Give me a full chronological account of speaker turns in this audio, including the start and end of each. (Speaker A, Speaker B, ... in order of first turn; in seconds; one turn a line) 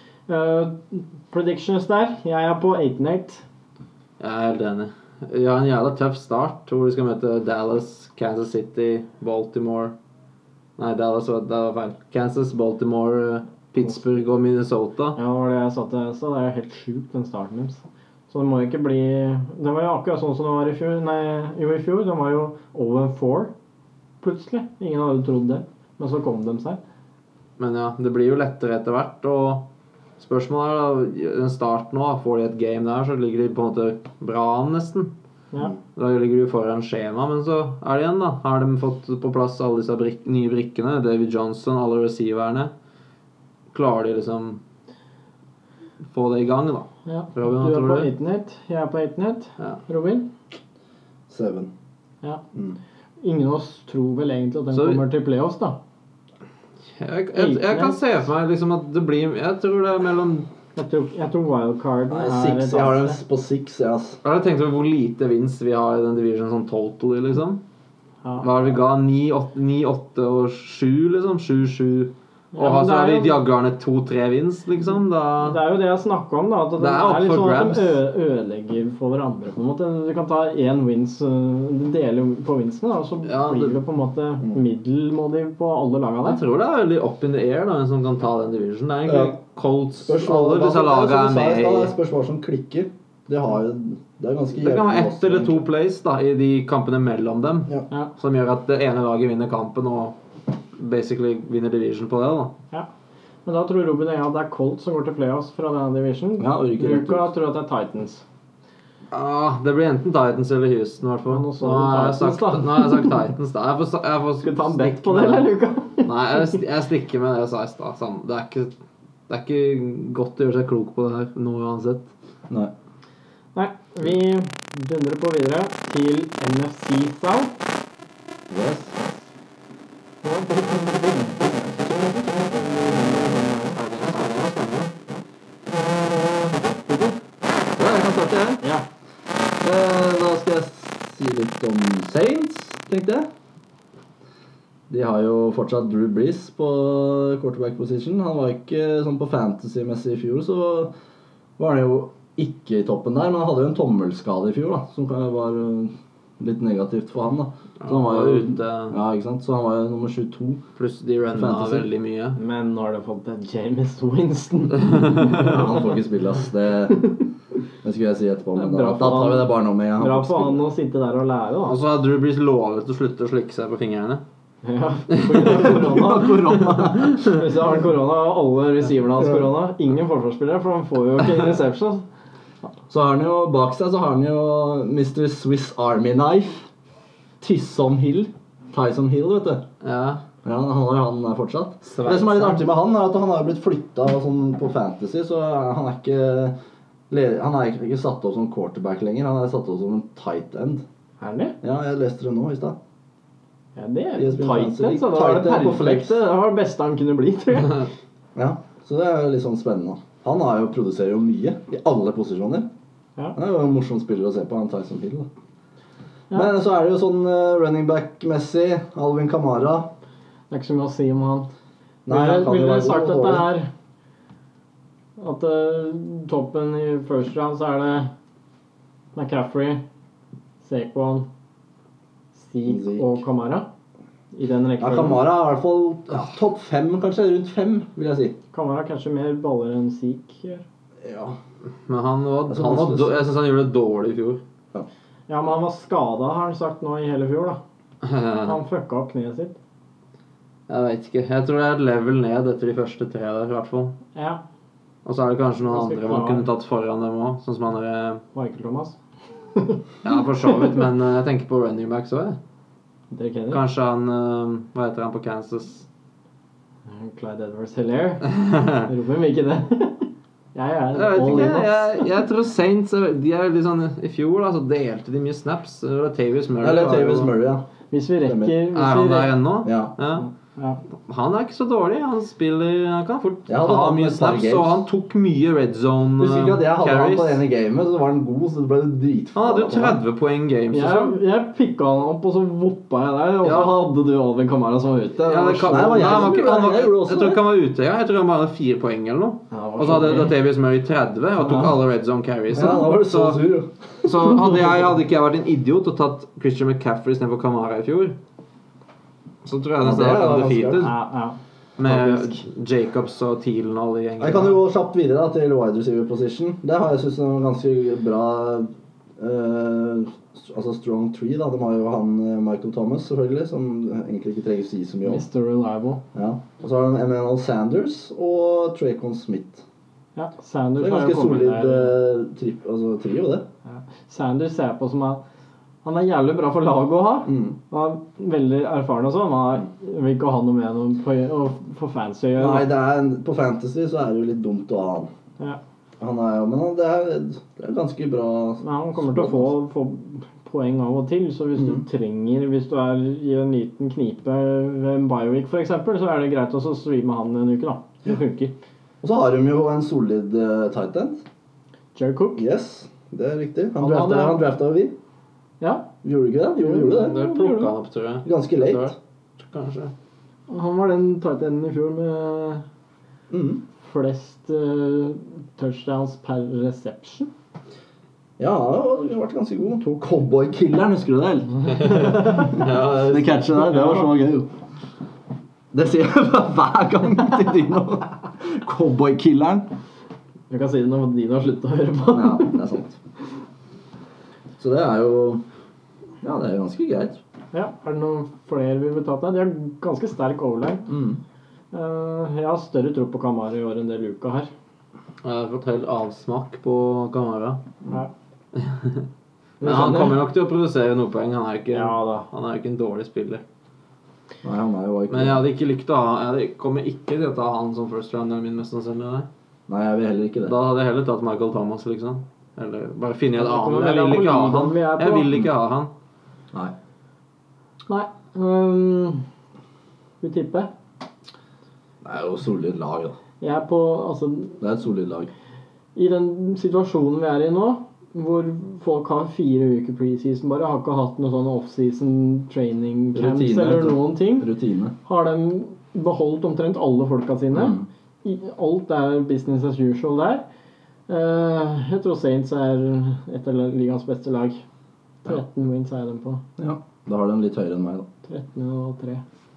Speaker A: 0.3-3.4
Speaker B: 4.2-9.9
Speaker B: 10.8-15.2
Speaker A: 15.1-23.5
Speaker A: 24.2-26.8
Speaker B: 27.6-29.6
Speaker B: 30.2-35.1
Speaker B: 35.9-42.7
Speaker B: 43.7-44.6
Speaker B: 46.1-48.1
Speaker A: 47.0-50.3
Speaker C: 51.3-51.7
Speaker A: 53.2-55.8
Speaker B: 54.7-55.0
Speaker B: 57.0-60.5
Speaker A: 57.3-58.0
Speaker A: 60.8-63.2
Speaker C: 62.1-64.2
Speaker B: 64.2-67.6
Speaker B: 68.4-75.6
Speaker A: 72.5-73.4
Speaker A: 75.4-86.4
Speaker B: 76.8-78.0
Speaker B: 83.2-83.8
Speaker B: 86.2-91.9
Speaker C: 89.0-89.3
Speaker C: 90.0-95.6
Speaker B: 94.5-100.1
Speaker B: 100.8-102.5
Speaker A: 103.4-108.2
Speaker C: 106.4-107.3
Speaker B: 109.1-118.7
Speaker A: 111.3-113.1
Speaker A: 114.4-116.1
Speaker B: 119.3-122.1
Speaker A: 123.5-127.5
Speaker C: 128.5-129.0
Speaker A: 130.2-133.8
Speaker B: 133.8-134.9
Speaker A: 136.7-137.2
Speaker C: 137.8-138.6
Speaker C: 139.6-143.3
Speaker C: 144.9-150.9
Speaker C: 151.6-160.6
Speaker B: 157.8-158.9
Speaker B: 160.8-162.4
Speaker C: 161.3-161.9
Speaker A: 162.3-165.6
Speaker C: 165.3-167.1
Speaker C: 167.8-170.6
Speaker A: 168.5-171.8
Speaker B: 171.7-174.2
Speaker A: 174.6-176.4
Speaker B: 175.2-175.6
Speaker C: 175.4-177.3
Speaker B: 176.5-177.3
Speaker A: 177.2-182.0
Speaker C: 182.9-186.7
Speaker C: 187.4-189.6
Speaker B: 189.8-190.2
Speaker C: 190.4-196.5
Speaker B: 191.8-192.6
Speaker C: 197.1-200.8
Speaker A: 201.2-201.6
Speaker C: 201.6-202.8
Speaker A: 203.8-207.9
Speaker C: 204.2-206.2
Speaker C: 208.3-212.7
Speaker C: 213.3-215.3
Speaker C: 216.3-219.9
Speaker A: 220.5-221.5
Speaker C: 222.1-223.5
Speaker A: 222.1-223.7
Speaker A: 225.2-228.1
Speaker A: 229.1-229.8
Speaker A: 230.6-231.3
Speaker A: 232.3-233.7
Speaker C: 232.7-233.2
Speaker A: 234.3-235.2
Speaker C: 234.8-238.3
Speaker A: 238.5-240.6
Speaker C: 241.0-241.3
Speaker B: 241.9-244.4
Speaker C: 242.5-243.2
Speaker A: 245.3-247.6
Speaker B: 248.0-248.6
Speaker A: 248.4-249.6
Speaker B: 250.7-254.0
Speaker A: 254.1-254.4
Speaker B: 255.0-258.2
Speaker A: 255.7-256.5
Speaker A: 258.3-259.0
Speaker A: 259.5-259.8
Speaker B: 260.0-262.4
Speaker A: 260.4-260.7
Speaker A: 263.1-263.6
Speaker B: 263.5-265.9
Speaker A: 266.9-272.1
Speaker B: 268.3-268.8
Speaker B: 270.9-277.3
Speaker C: 276.6-277.6
Speaker A: 277.9-279.3
Speaker C: 278.2-278.6
Speaker B: 278.7-280.3
Speaker C: 279.6-279.9
Speaker B: 281.0-287.4
Speaker C: 283.5-284.8
Speaker C: 286.2-290.0
Speaker B: 289.3-291.2
Speaker A: 290.7-296.2
Speaker B: 293.4-293.8
Speaker B: 295.2-303.4
Speaker C: 295.6-297.4
Speaker A: 299.5-300.3
Speaker A: 301.4-301.7
Speaker C: 302.5-303.7
Speaker B: 304.0-308.2
Speaker B: 309.4-310.9
Speaker C: 309.8-310.9
Speaker A: 310.8-311.4
Speaker B: 311.8-314.6
Speaker A: 311.9-312.2
Speaker C: 314.2-325.2
Speaker A: 325.0-326.0
Speaker C: 326.1-329.6
Speaker A: 330.1-332.0
Speaker C: 330.8-333.4
Speaker A: 333.7-335.2
Speaker A: 335.8-342.7
Speaker C: 337.3-337.5
Speaker C: 342.4-345.1
Speaker C: 346.0-349.5
Speaker A: 348.6-358.5
Speaker C: 351.6-351.8
Speaker C: 359.0-361.2
Speaker A: 361.9-362.4
Speaker C: 362.4-364.9
Speaker A: 363.8-364.4
Speaker A: 365.6-365.9
Speaker C: 366.0-367.3
Speaker A: 366.6-367.7
Speaker B: 366.8-369.9
Speaker C: 368.2-368.9
Speaker A: 370.5-372.6
Speaker C: 373.3-373.6
Speaker A: 373.8-377.3
Speaker C: 378.4-384.5
Speaker B: 381.7-383.5
Speaker A: 383.8-384.0
Speaker C: 385.7-389.7
Speaker A: 390.5-392.6
Speaker C: 392.1-392.9
Speaker C: 394.6-395.4
Speaker C: 396.2-397.2
Speaker A: 397.5-400.9
Speaker C: 400.9-401.2
Speaker A: 401.7-404.5
Speaker B: 405.2-407.6
Speaker B: 408.5-409.1
Speaker A: 409.6-410.2
Speaker B: 409.6-413.4
Speaker A: 411.7-412.3
Speaker C: 414.4-415.4
Speaker B: 415.1-419.3
Speaker C: 419.7-420.5
Speaker B: 420.4-425.9
Speaker A: 423.4-425.3
Speaker A: 427.9-429.2
Speaker A: 430.2-430.7
Speaker C: 432.0-433.1
Speaker A: 433.4-434.6
Speaker C: 434.6-435.3
Speaker A: 435.9-444.5
Speaker C: 443.1-444.9
Speaker A: 445.0-450.4
Speaker C: 447.5-447.9
Speaker A: 451.1-454.6
Speaker A: 455.2-456.4
Speaker C: 456.6-458.1
Speaker A: 458.3-459.2